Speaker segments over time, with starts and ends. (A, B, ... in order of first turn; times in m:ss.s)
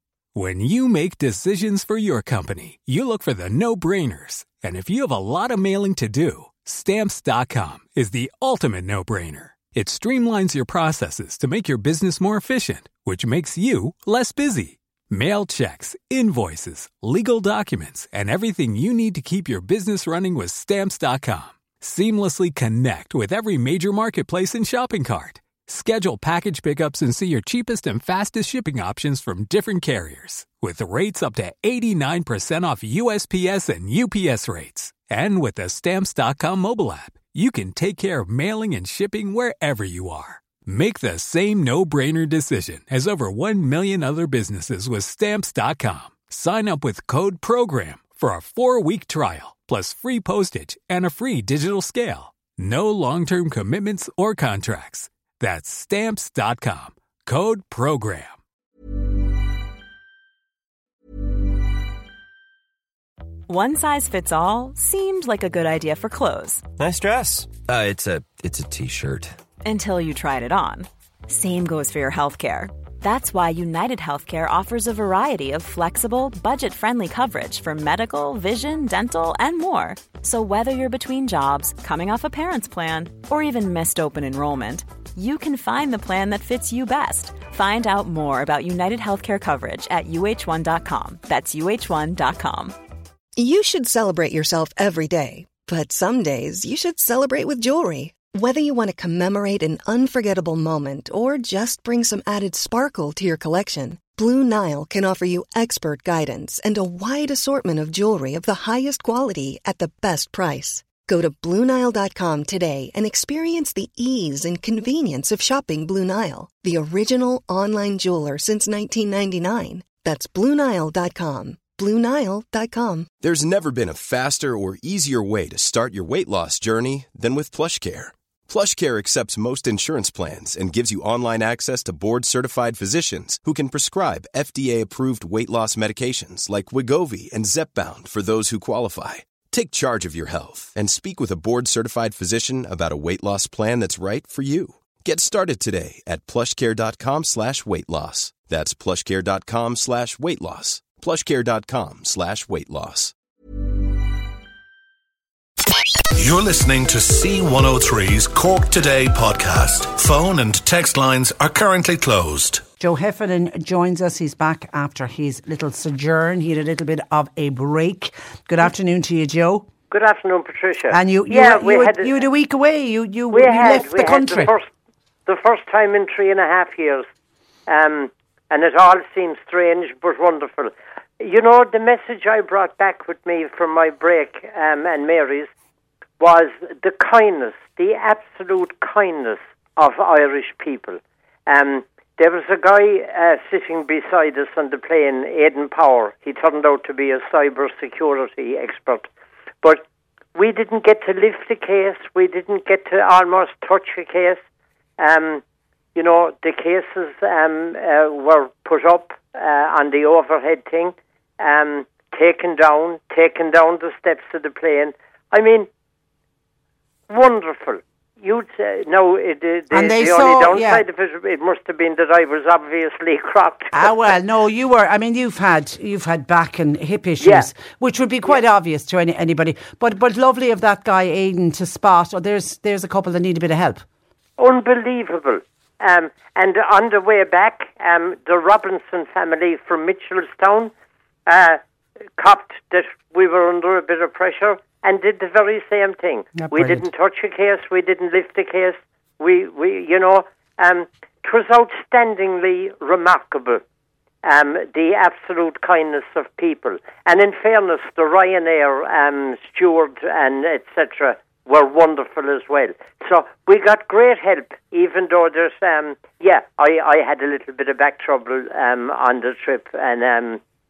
0:00.4-0:58.4 A
1:03.5-1:06.6 B
1:06.8-1:09.3 C
1:09.6-1:32.8 B
1:33.4-2:03.1 D
2:03.2-2:33.1 E
2:36.2-2:42.6 F
2:42.8-2:49.7 G
2:49.9-2:52.1 H
2:50.9-2:54.5 G
2:53.3-2:54.7 H
2:55.3-2:57.1 H
2:57.7-3:05.5 H
3:06.2-3:19.1 H
3:20.4-3:24.4 H
3:25.0-3:25.4 H
3:26.0-3:35.7 H
3:37.1-3:44.0 H
3:39.7-3:40.8 G
3:43.7-3:53.8 G
3:47.2-3:47.5 H
3:54.4-4:00.7 H
4:01.3-4:01.6 H
4:02.2-4:13.6 H
4:06.4-4:06.8 G
4:14.2-4:30.4 H